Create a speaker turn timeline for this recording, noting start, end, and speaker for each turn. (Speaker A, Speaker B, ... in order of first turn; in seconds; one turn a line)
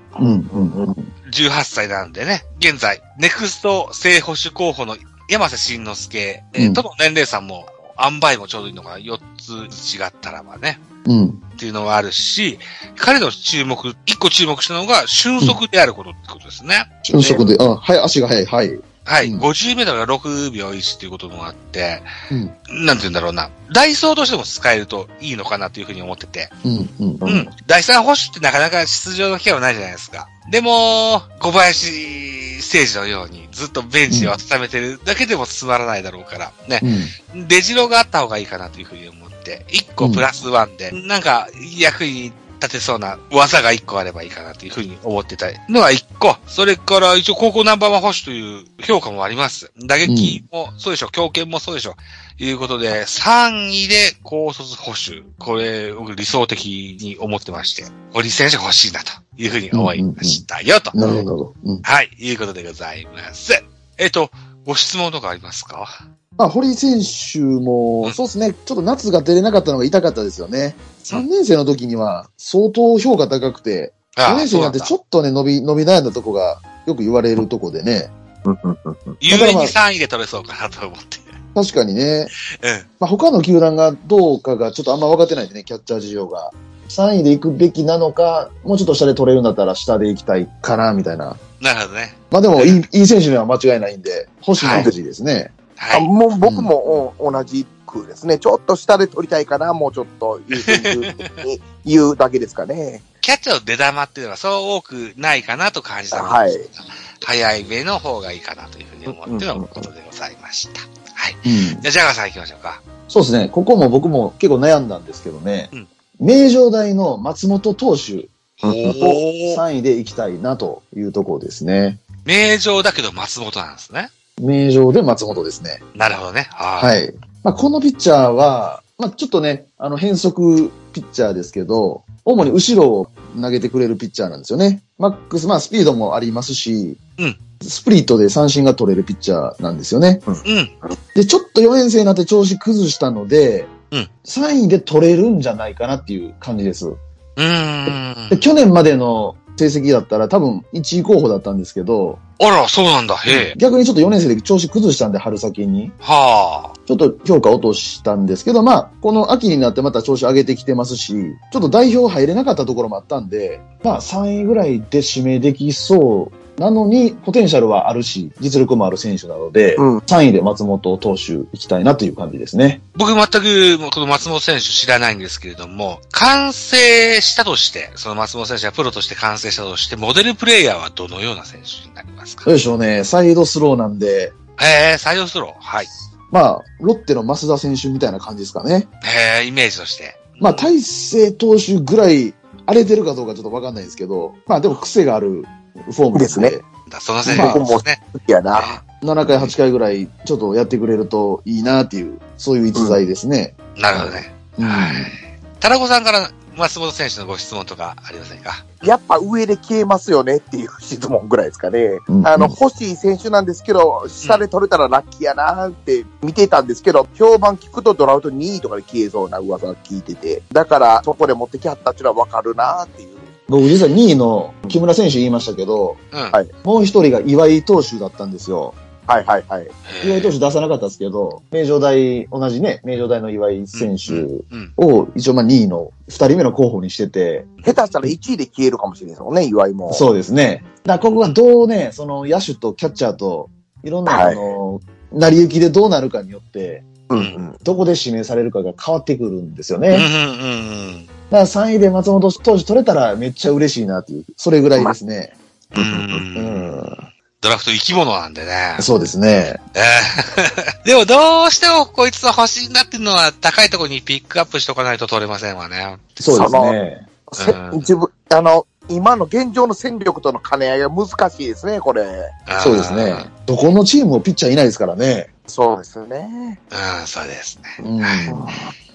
Speaker A: 0.2-0.9
Speaker B: 0.2-1.1
Speaker C: 1.2-10.8
Speaker B: 6.6-6.8
Speaker B: 11.1-11.4
Speaker C: 11.6-17.1
Speaker B: 17.1-19.5
Speaker A: 17.1-17.4
Speaker C: 19.1-22.1
Speaker B: 22.3-22.6
Speaker C: 22.7-26.5
Speaker B: 26.6-27.3
Speaker C: 27.2-61.0
Speaker B: 34.1-34.3
Speaker B: 36.8-37.1
Speaker B: 40.0-40.2
Speaker B: 50.0-50.4
Speaker B: 59.7-60.4
Speaker B: 60.9-61.8
Speaker C: 61.8-65.9
Speaker B: 66.4-78.1
Speaker C: 74.2-74.9
Speaker A: 78.5-79.2
Speaker C: 79.2-81.4
Speaker B: 79.3-79.8
Speaker B: 81.5-82.3
Speaker C: 82.6-82.9
Speaker B: 83.0-91.4
Speaker C: 91.6-92.8
Speaker B: 92.3-95.5
Speaker C: 94.6-94.9
Speaker C: 95.8-96.1
Speaker A: 95.9-103.0
Speaker B: 96.4-96.7
Speaker C: 100.6-101.5
Speaker C: 103.2-112.8
Speaker A: 106.1-106.7
Speaker A: 109.1-109.9
Speaker B: 111.5-111.8
Speaker B: 113.1-122.0
Speaker C: 118.6-119.6
Speaker A: 118.6-119.2
Speaker C: 122.2-124.1
Speaker B: 124.4-125.8
Speaker C: 126.0-127.0
Speaker B: 126.8-137.0
Speaker B: 137.6-140.2
Speaker C: 140.4-140.7
Speaker B: 141.1-143.7
Speaker B: 144.2-147.0
Speaker C: 147.4-148.4
Speaker B: 148.3-152.2
Speaker C: 152.4-153.6
Speaker B: 153.3-155.9
Speaker C: 156.0-156.8
Speaker B: 156.9-172.8
Speaker A: 169.8-170.0
Speaker C: 173.0-182.5
Speaker B: 182.4-184.3
Speaker C: 184.6-185.9
Speaker B: 186.3-188.9
Speaker C: 189.0-190.7
Speaker B: 190.4-196.6
Speaker A: 196.1-196.6
Speaker C: 196.9-198.0
Speaker A: 197.2-198.8
Speaker B: 197.3-197.6
Speaker B: 199.0-203.6
Speaker A: 202.7-203.0
Speaker C: 203.8-208.8
Speaker B: 204.6-205.2
Speaker A: 208.8-223.3
Speaker B: 212.1-212.6
Speaker B: 223.5-226.0
Speaker B: 226.6-228.8
Speaker A: 229.1-229.7
Speaker C: 229.9-230.3
Speaker B: 230.0-237.5
Speaker C: 233.7-234.7
Speaker A: 237.6-240.1
Speaker B: 239.9-246.9
Speaker A: 244.1-244.5
Speaker A: 247.1-247.6
Speaker C: 247.1-247.4
Speaker B: 247.6-250.1
Speaker C: 249.9-251.1
Speaker B: 251.3-255.3
Speaker A: 255.8-256.2
Speaker C: 255.8-256.9
Speaker B: 256.4-257.0
Speaker C: 257.4-258.9
Speaker B: 258.8-259.6
Speaker C: 259.8-266.1
Speaker B: 266.2-267.1
Speaker A: 266.3-272.4
Speaker C: 267.4-267.9
Speaker C: 272.5-273.3
Speaker B: 272.6-275.3
Speaker A: 275.5-276.6
Speaker C: 276.7-278.3
Speaker B: 277.8-278.6
Speaker A: 278.3-278.7